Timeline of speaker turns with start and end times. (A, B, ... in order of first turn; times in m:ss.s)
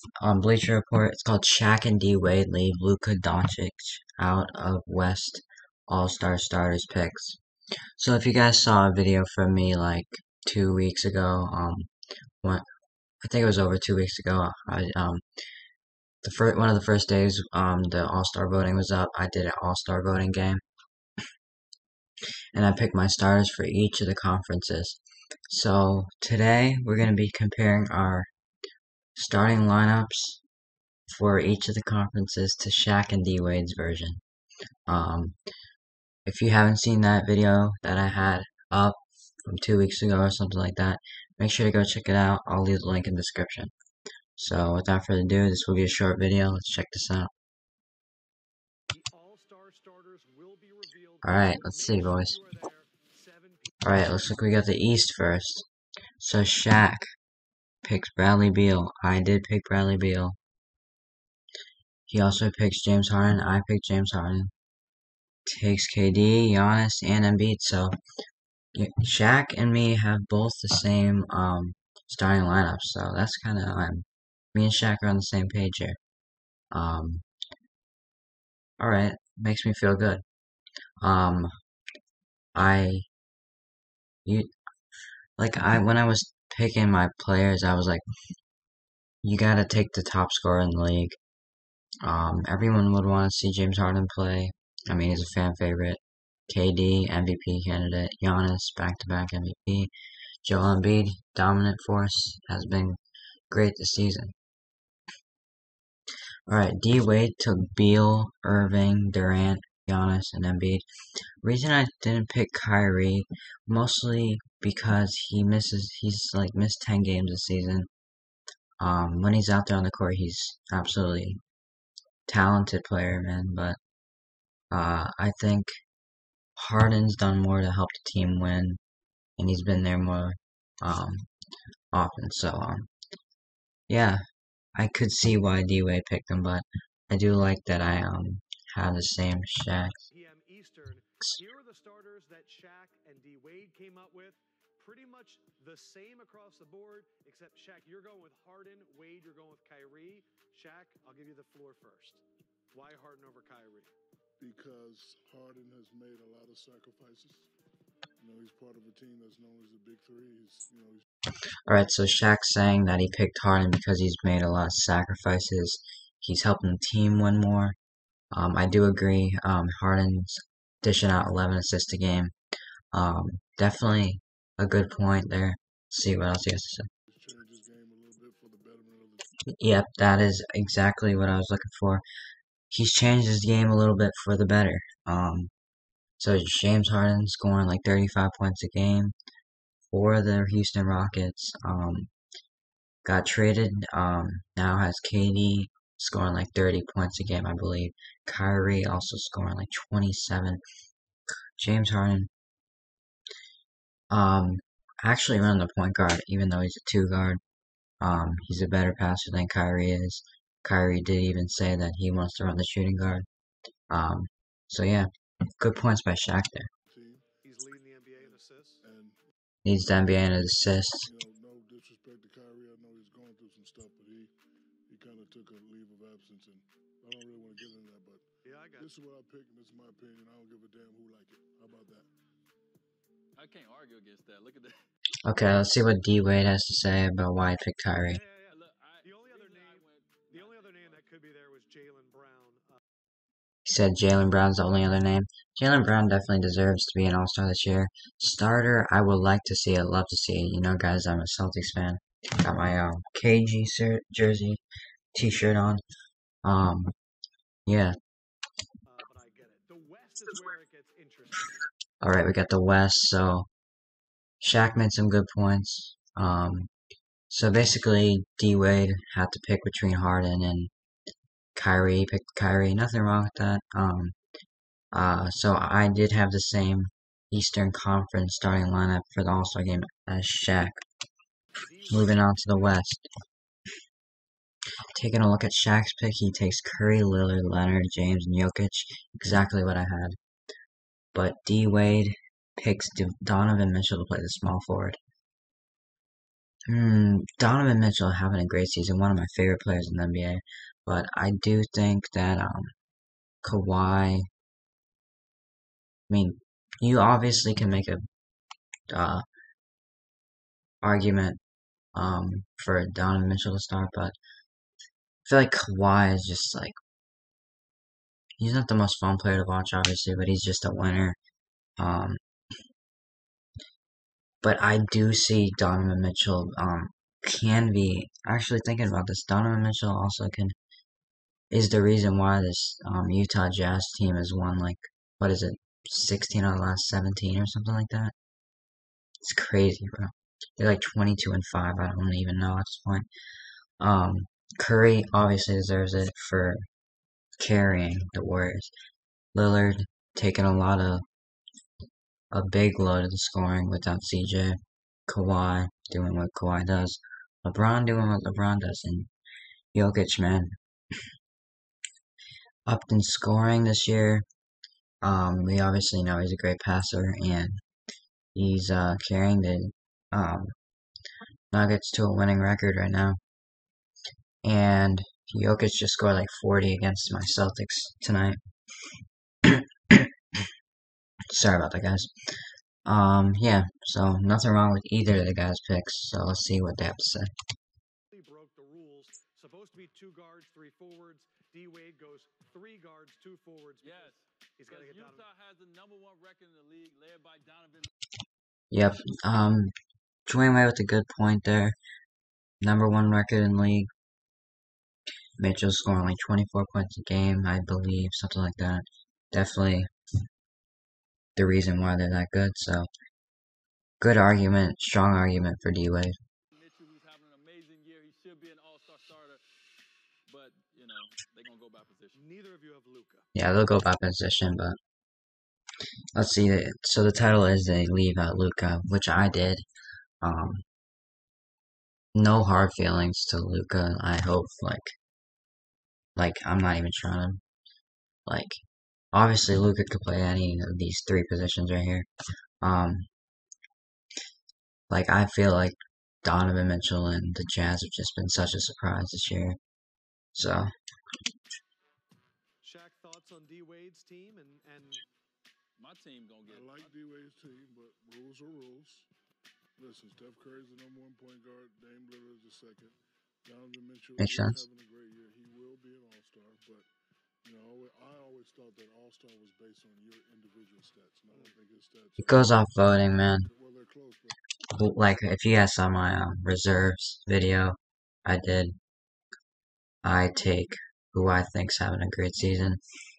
0:00.2-0:07.4 A
0:08.0-0:11.9 A
0:13.2-0:15.2 A
0:16.2-0:20.6 A
0:22.5-0:28.3 A
0:29.2-0:30.4 A
0:31.1-0:34.2 A
0:34.9-0:35.4 A
0:36.2-0:43.7 A
0:44.4-0:47.3 A
0:48.9-0:53.8 B
0:51.2-0:52.4 A
0:53.8-0:55.6 A
0:56.2-0:57.0 A
0:57.8-1:00.4 A
1:02.1-1:04.5 A
1:05.4-1:07.9 A
1:08.7-1:16.0 A
1:16.7-1:17.2 A
1:18.8-1:20.2 A
1:21.0-1:21.5 A
1:22.5-1:23.0 A
1:24.2-1:24.5 A
1:25.4-1:28.0 A
1:29.2-1:31.2 A
1:32.0-1:39.9 A
1:40.4-1:43.0 A
1:43.5-1:44.3 A
1:46.5-1:50.8 A
1:51.4-1:57.9 A
1:58.8-2:01.4 A
2:02.3-2:03.8 A
2:04.7-2:05.7 A
2:06.6-2:08.8 A
2:09.4-2:11.3 A
2:11.9-2:12.9 A
2:13.9-2:14.2 A
2:14.7-2:20.0 A
2:20.1-2:33.9 B
2:34.4-2:37.5 C
2:38.2-2:41.0 C
2:41.7-2:47.8 A
2:48.3-2:52.3 A
2:52.9-2:56.9 A
2:57.1-2:59.2 C
2:59.6-3:02.0 A
3:02.7-3:05.5 A
3:06.2-3:09.1 A
3:09.9-3:12.1 A
3:13.0-3:20.6 A
3:21.6-3:22.3 A
3:24.1-3:27.4 A
3:28.0-3:33.2 A
3:33.9-3:36.7 A
3:36.9-3:37.3 C
3:37.4-3:38.8 B
3:38.2-3:39.2 C
3:39.6-3:41.1 A
3:41.0-3:44.3 C
3:44.9-3:48.2 C
3:48.4-3:48.9 B
3:48.8-3:52.1 C
3:53.3-3:54.7 D
3:55.2-3:58.2 A
3:58.0-4:02.8 B
3:58.4-4:01.0 D
4:03.6-4:14.6 A
4:15.1-4:15.8 A
4:16.4-4:16.9 A
4:17.6-4:17.9 A
4:18.8-4:21.6 B
4:22.0-4:23.5 A
4:24.4-4:26.7 A
4:27.3-4:30.7 A
4:31.5-4:34.2 A
4:34.9-4:40.8 A
4:41.5-4:42.8 B
4:41.9-4:43.0 A
4:44.9-4:50.2 A
4:51.1-4:55.0 A
4:56.7-5:02.7 A
5:03.4-5:04.2 A
5:06.1-5:08.0 A
5:08.9-5:09.2 A
5:10.8-5:11.4 A
5:11.9-5:14.2 A
5:15.2-5:16.7 A
5:18.4-5:21.2 A
5:21.8-5:22.2 A
5:24.4-5:30.5 A
5:31.5-5:38.1 A
5:39.2-5:43.1 A
5:43.8-5:46.6 A
5:47.4-5:48.7 A
5:49.3-5:51.0 A
5:52.3-5:59.1 A
5:59.7-6:00.5 A
6:02.6-6:04.2 A
6:05.0-6:07.5 A
6:08.3-6:10.5 A
6:11.5-6:13.2 A
6:14.4-6:18.4 A
6:19.5-6:20.1 A
6:21.3-6:22.1 A
6:22.8-6:27.3 A
6:28.1-6:35.2 B
6:33.8-6:37.9 D
6:38.7-6:39.7 A
6:40.2-6:41.8 A
6:42.6-6:43.9 A
6:45.4-6:49.9 A
6:51.4-6:52.9 A
6:54.0-6:56.2 A
6:56.5-6:59.4 D
7:00.3-7:02.2 D
7:02.1-7:03.3 B
7:03.3-7:04.8 A
7:06.1-7:09.6 A
7:10.2-7:10.6 A
7:12.1-7:14.9 A
7:16.2-7:17.4 A
7:18.2-7:18.6 A
7:19.1-7:22.1 A
7:22.6-7:23.0 A
7:24.9-7:29.6 A
7:30.3-7:30.7 A
7:32.6-7:35.0 B
7:35.8-7:36.9 D
7:36.5-7:39.1 C
7:39.8-7:46.9 C
7:44.2-7:44.6 A
7:47.4-7:52.6 C
7:52.2-7:53.5 A
7:53.3-7:54.4 C
7:54.7-7:58.7 A
8:00.0-8:02.8 A